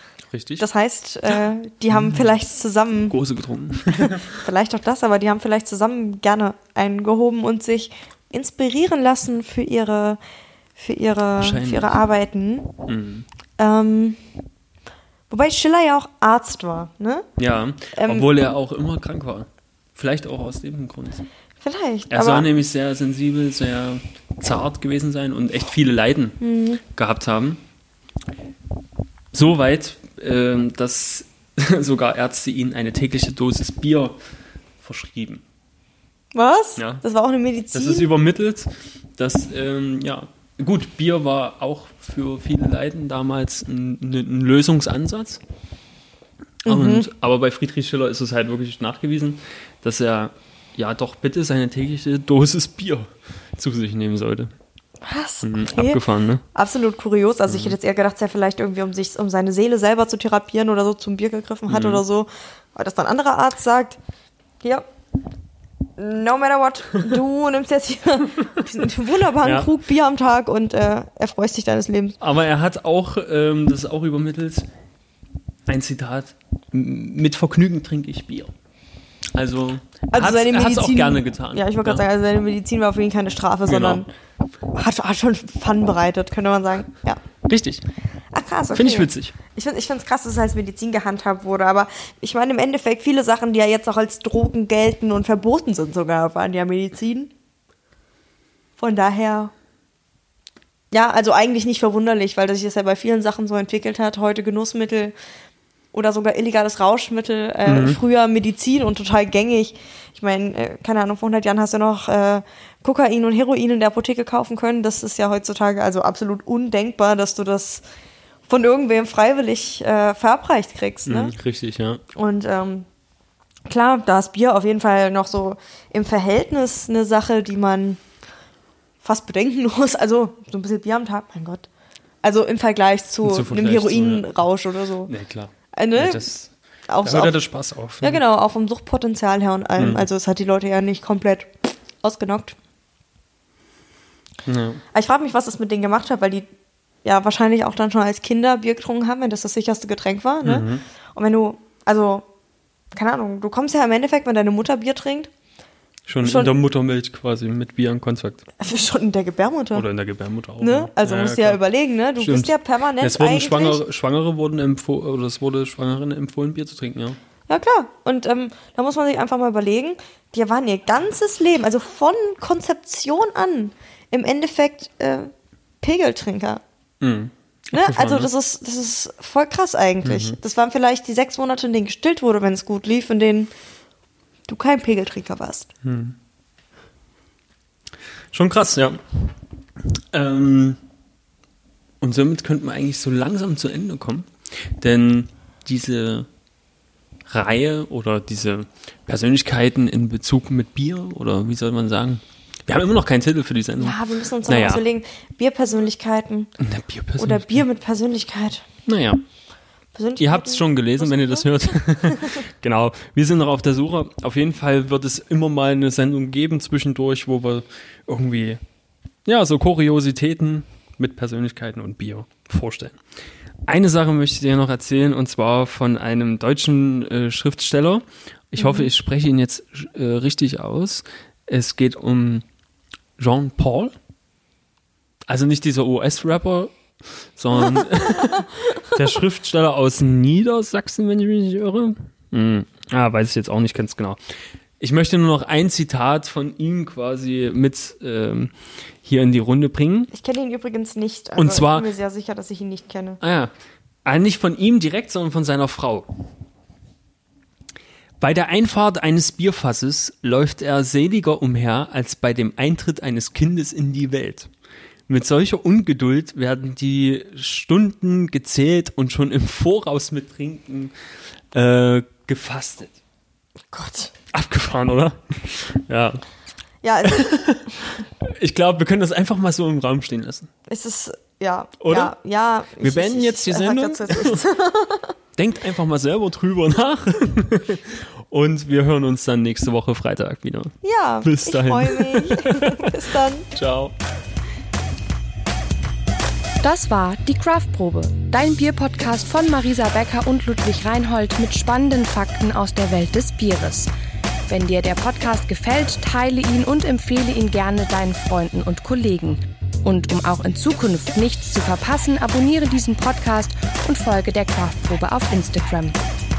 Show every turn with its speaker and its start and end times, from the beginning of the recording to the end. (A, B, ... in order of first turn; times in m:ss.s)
0:00.3-0:00.6 A
0:00.6-0:03.2 B
0:01.9-0:02.2 A
0:03.1-0:04.3 A
0:03.9-0:10.2 B
0:10.8-0:12.7 B
0:11.4-0:12.0 A
0:12.8-0:13.2 A
0:13.6-0:14.2 B
0:15.3-0:17.2 B
0:17.4-0:21.2 A
0:17.9-0:18.3 B
0:21.6-0:22.5 B
0:22.1-0:27.6 A
0:26.4-0:26.8 B
0:29.3-0:34.1 A
0:34.8-0:35.4 A
0:36.3-0:38.1 B
0:36.8-0:37.0 A
0:37.7-0:45.4 A
0:46.6-0:54.5 A
0:46.6-0:47.1 B
0:55.0-0:56.0 B
0:55.4-0:56.4 A
0:56.5-1:04.0 B
0:57.5-0:57.7 A
1:01.7-1:02.0 A
1:04.6-1:04.8 B
1:06.0-1:12.2 B
1:09.4-1:09.7 A
1:12.2-1:14.7 A
1:15.7-1:18.5 A
1:19.3-1:22.0 A
1:20.1-1:24.1 B
1:23.6-1:24.0 A
1:24.7-1:27.2 B
1:27.4-1:27.8 A
1:28.3-1:37.3 B
1:28.7-1:29.3 A
1:38.8-1:39.5 B
1:40.9-1:45.1 B
1:45.9-1:57.8 B
1:47.6-1:48.0 A
1:58.5-2:01.3 B
2:01.1-2:02.0 A
2:02.1-2:02.8 B
2:03.7-2:08.0 B
2:09.0-2:11.6 B
2:12.2-2:15.1 B
2:13.2-2:14.4 A
2:15.0-2:18.2 A
2:15.7-2:16.3 B
2:16.9-2:17.4 B
2:18.0-2:21.5 B
2:19.8-2:20.1 A
2:22.0-2:22.6 B
2:24.4-2:24.8 A
2:24.9-2:26.4 B
2:27.0-2:32.2 B
2:30.4-2:30.8 A
2:32.9-2:35.3 B
2:36.1-2:38.4 A
2:36.2-2:36.5 B
2:38.6-2:39.8 B
2:39.7-2:41.6 A
2:40.6-2:43.8 B
2:42.2-2:47.2 A
2:47.5-2:55.3 B
2:55.8-2:56.6 B
2:57.0-2:58.3 A
2:57.7-3:03.5 B
3:00.0-3:00.4 A
3:04.5-3:05.7 B
3:05.8-3:06.2 A
3:08.3-3:09.3 A
3:10.1-3:10.8 A
3:12.0-3:16.3 A
3:17.3-3:24.8 A
3:23.8-3:26.5 B
3:26.6-3:27.6 A
3:27.2-3:28.6 B
3:28.8-3:29.2 A
3:29.9-3:32.4 B
3:30.2-3:38.6 A
3:39.2-3:43.0 A
3:43.7-3:52.4 A
3:48.6-3:48.9 B
3:53.2-3:53.9 A
3:55.3-3:56.7 A
3:57.4-4:10.1 A
3:57.7-3:58.9 B
4:10.1-4:13.2 B
4:11.4-4:11.9 A
4:13.2-4:13.5 A
4:14.0-4:16.1 A
4:18.2-4:24.5 A
4:25.1-4:30.9 A
4:31.5-4:33.0 A
4:33.7-4:34.1 B
4:34.3-4:36.2 A
4:36.8-4:37.4 B
4:37.0-4:40.5 A
4:40.7-4:45.1 B
4:41.8-4:42.1 A
4:42.8-4:44.4 A
4:45.4-4:53.9 A
4:50.8-4:53.5 B
4:56.6-5:03.9 C
5:04.5-5:16.0 C